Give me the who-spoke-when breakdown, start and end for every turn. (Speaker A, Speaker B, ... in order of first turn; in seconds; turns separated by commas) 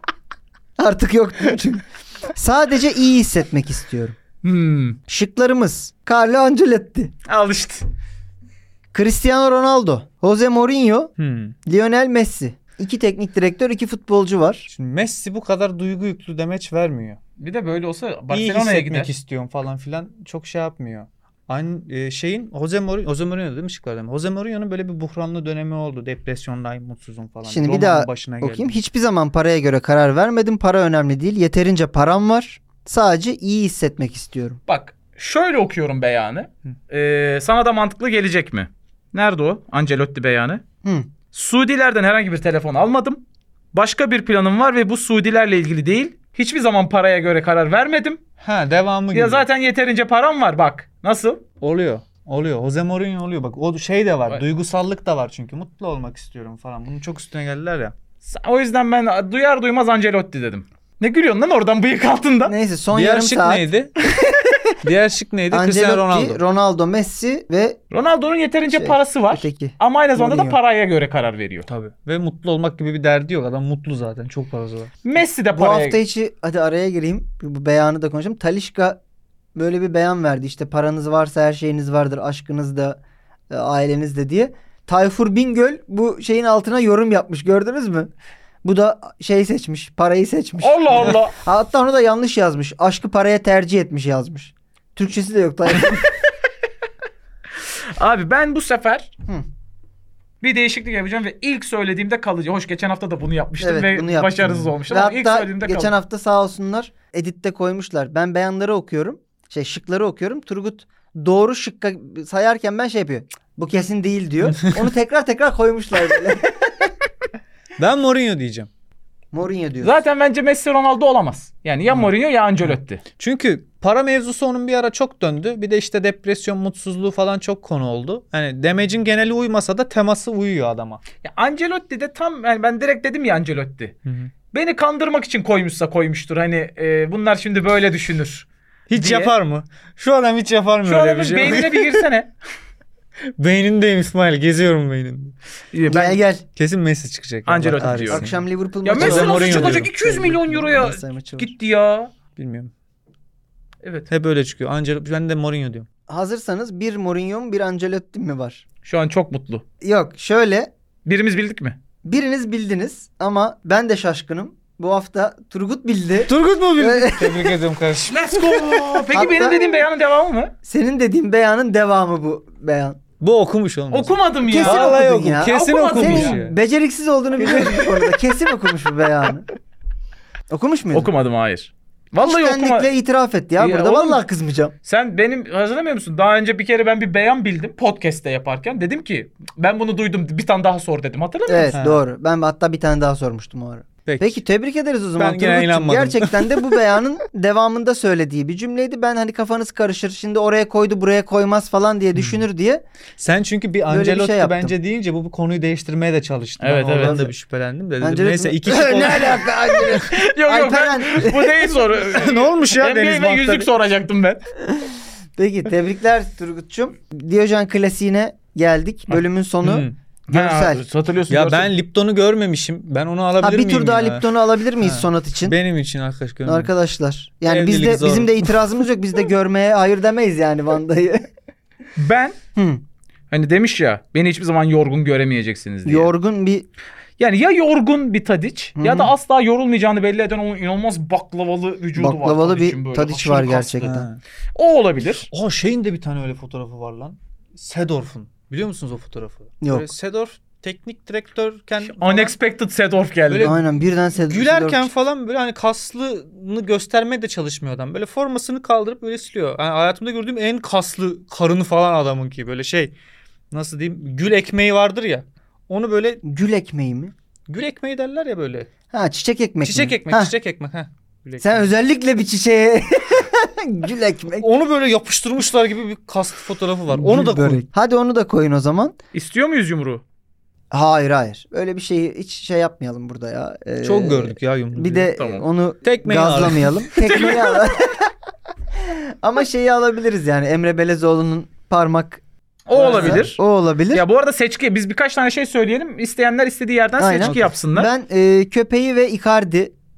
Speaker A: 0.8-4.2, Speaker B: 4.4-5.0, Speaker A: 5.1-7.1, Speaker B: 7.3-7.8, Speaker A: 8.9-11.1, Speaker C: 11.2-11.6, Speaker A: 11.7-14.7, Speaker C: 14.7-17.2, Speaker B: 17.4-19.1, Speaker C: 18.3-28.8, Speaker A: 27.4-34.6, Speaker B: 34.7-40.6, Speaker B: 41.3-43.2, Speaker B: 43.7-48.2, Speaker C: 48.4-49.4, Speaker B: 49.1-51.4, Speaker C: 51.6-57.9, Speaker B: 58.2-62.5, Speaker A: 62.5-63.7, Speaker C: 62.9-63.9, Speaker A: 64.3-64.7, Speaker C: 64.8-66.4, Speaker A: 65.5-67.8, Speaker B: 67.9-71.7, Speaker A: 68.7-70.5, Speaker C: 71.7-74.9, Speaker B: 75.0-76.0, Speaker A: 75.5-79.0, Speaker A: 79.5-83.0, Speaker A: 83.5-88.1, Speaker A: 88.6-96.0, Speaker B: 90.6-91.3, Speaker B: 98.0-99.1, Speaker B: 100.4-105.9, Speaker A: 103.6-116.9, Speaker C: 104.4-104.7, Speaker C: 117.8-118.7, Speaker A: 119.3-120.0, Speaker B: 119.8-123.0, Speaker C: 122.6-131.0, Speaker B: 131.2-133.9, Speaker C: 134.1-134.3, Speaker B: 134.5-139.3, Speaker C: 138.9-142.1, Speaker B: 140.8-142.3, Speaker C: 143.4-145.3, Speaker B: 145.7-146.2, Speaker A: 145.9-146.4, Speaker C: 146.6-149.9, Speaker B: 147.4-148.3, Speaker A: 147.8-151.5, Speaker B: 148.8-152.1, Speaker C: 152.3-152.7, Speaker B: 153.8-154.1, Speaker C: 154.1-155.9, Speaker A: 156.1-158.6, Speaker B: 158.8-159.6, Speaker A: 159.8-160.7, Speaker B: 161.0-161.8, Speaker A: 162.0-167.6, Speaker C: 166.2-169.1, Speaker B: 168.1-170.5, Speaker A: 169.1-169.8, Speaker A: 170.6-173.0, Speaker C: 173.2-176.6, Speaker B: 173.9-176.3, Speaker A: 174.5-179.4, Speaker C: 177.4-178.1, Speaker A: 180.5-181.1, Speaker B: 180.9-182.9, Speaker A: 182.2-184.7, Speaker B: 183.6-184.2, Speaker B: 184.8-191.7, Speaker A: 191.5-202.8, Speaker C: 191.7-192.0, Speaker C: 194.1-194.4, Speaker C: 195.2-196.8, Speaker C: 203.2-209.7, Speaker A: 203.9-204.7, Speaker B: 206.6-207.2, Speaker A: 207.0-207.3, Speaker A: 208.0-211.8, Speaker B: 210.0-214.4, Speaker C: 212.0-213.7, Speaker A: 214.7-220.8, Speaker C: 219.6-219.9, Speaker B: 220.3-221.7, Speaker C: 221.3-224.2, Speaker A: 223.4-225.6, Speaker C: 224.8-226.7, Speaker A: 226.4-231.2, Speaker C: 227.4-228.7, Speaker B: 232.0-232.3, Speaker A: 232.6-232.8, Speaker B: 233.3-236.1, Speaker A: 235.8-236.7, Speaker B: 237.2-245.3, Speaker A: 238.8-239.1, Speaker A: 242.0-244.0, Speaker C: 243.8-244.2, Speaker C: 245.3-252.3, Speaker A: 249.6-249.9, Speaker B: 252.0-253.5, Speaker C: 253.3-262.9, Speaker A: 253.4-254.9, Speaker C: 263.5-266.2, Speaker A: 266.2-267.1, Speaker C: 267.5-268.7, Speaker A: 268.9-270.3, Speaker C: 269.6-271.7, Speaker A: 271.4-274.4, Speaker C: 274.4-277.6, Speaker A: 276.9-278.9, Speaker B: 279.1-280.0, Speaker A: 280.7-288.1, Speaker C: 283.8-285.1, Speaker B: 285.2-285.4, Speaker C: 285.8-287.2, Speaker B: 287.1-287.6, Speaker A: 288.8-292.2, Speaker B: 292.7-293.4, Speaker A: 292.7-294.0, Speaker C: 292.8-293.2, Speaker B: 293.9-297.9, Speaker A: 297.0-299.7, Speaker C: 297.2-297.5